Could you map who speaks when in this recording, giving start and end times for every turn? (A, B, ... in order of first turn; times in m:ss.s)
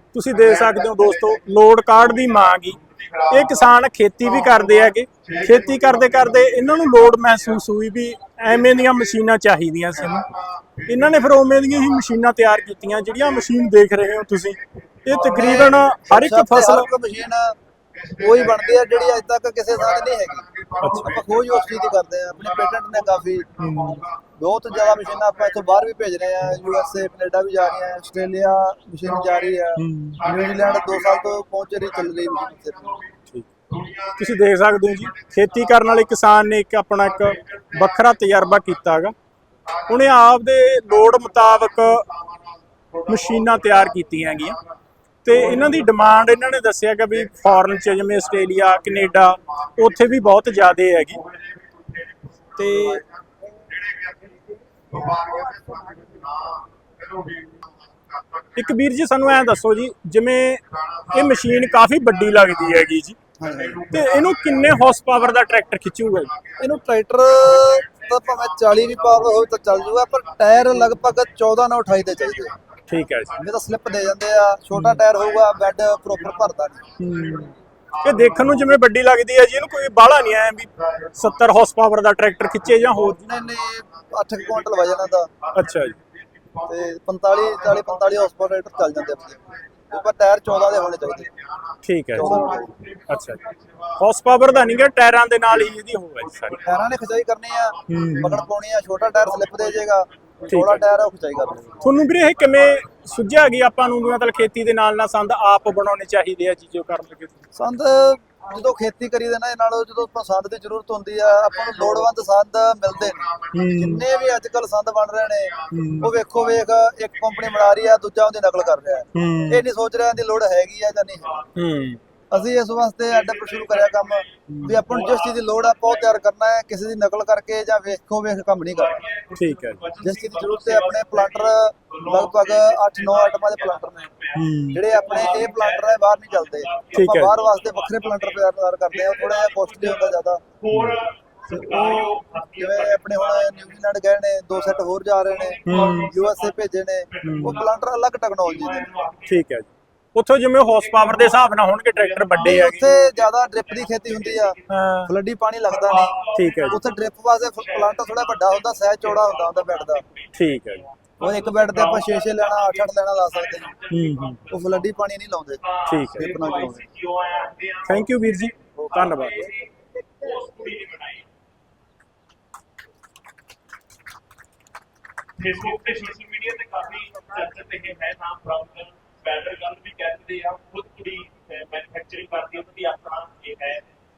0:00.1-0:10.3 A
0:00.7-0:01.0 B
0:10.9-0:16.9 A
0:15.1-0:17.6 C
0:18.2-0:20.5 C
0:20.8-0:21.1 A
0:21.0-0:23.5 C
0:23.6-0:24.0 A
0:24.4-0:33.0 C
0:29.8-0:30.2 A
0:34.2-0:39.1 A
0:39.9-0:42.1 A
0:43.1-0:44.6 A
0:45.2-0:51.2 A
0:52.6-0:53.0 A
0:55.0-0:56.1 B
0:58.6-1:03.2 A
1:03.4-1:03.8 C
1:03.8-1:06.3 A
1:06.6-1:12.6 C
1:12.9-1:13.4 A
1:13.4-1:16.8 C
1:14.7-1:15.0 A
1:17.0-1:23.2 A
1:23.0-1:25.3 C
1:25.5-1:25.9 A
1:26.6-1:31.3 C
1:31.8-1:33.4 A
1:32.1-1:32.7 C
1:34.0-1:36.6 A
1:36.6-1:41.8 C
1:37.9-1:38.4 A
1:40.5-1:40.8 A
1:41.8-1:47.4 A
1:47.5-2:01.4 C
1:53.5-1:54.0 A
1:55.7-1:56.1 A
1:59.1-1:59.6 A
2:01.5-2:02.0 A
2:02.3-2:09.0 C
2:03.4-2:03.8 B
2:04.5-2:04.8 A
2:09.0-2:11.3 B
2:09.3-2:09.8 A
2:10.0-2:14.1 C
2:14.3-2:14.8 A
2:14.7-2:20.4 C
2:14.8-2:15.7 B
2:16.5-2:18.2 B
2:16.9-2:17.4 A
2:19.1-2:23.5 B
2:20.7-2:21.0 A
2:21.5-2:28.9 C
2:25.6-2:26.3 B
2:25.6-2:26.1 A
2:27.2-2:27.6 A
2:28.8-2:29.2 B
2:29.2-2:32.9 A
2:32.4-2:36.2 C
2:34.7-2:35.1 A
2:36.0-2:36.8 B
2:36.3-2:36.8 A
2:36.7-2:40.0 C
2:39.3-2:40.1 B
2:40.3-2:40.8 A
2:41.2-2:43.7 C
2:41.2-2:42.6 B
2:43.5-2:44.6 B
2:43.9-2:44.4 A
2:44.5-2:45.6 C
2:45.8-2:46.4 A
2:46.0-2:47.8 B
2:46.1-2:46.9 C
2:47.8-2:49.5 A
2:48.8-2:49.4 C
2:49.0-2:49.5 B
2:50.2-2:51.2 B
2:55.4-3:03.8 B
2:55.5-2:56.1 A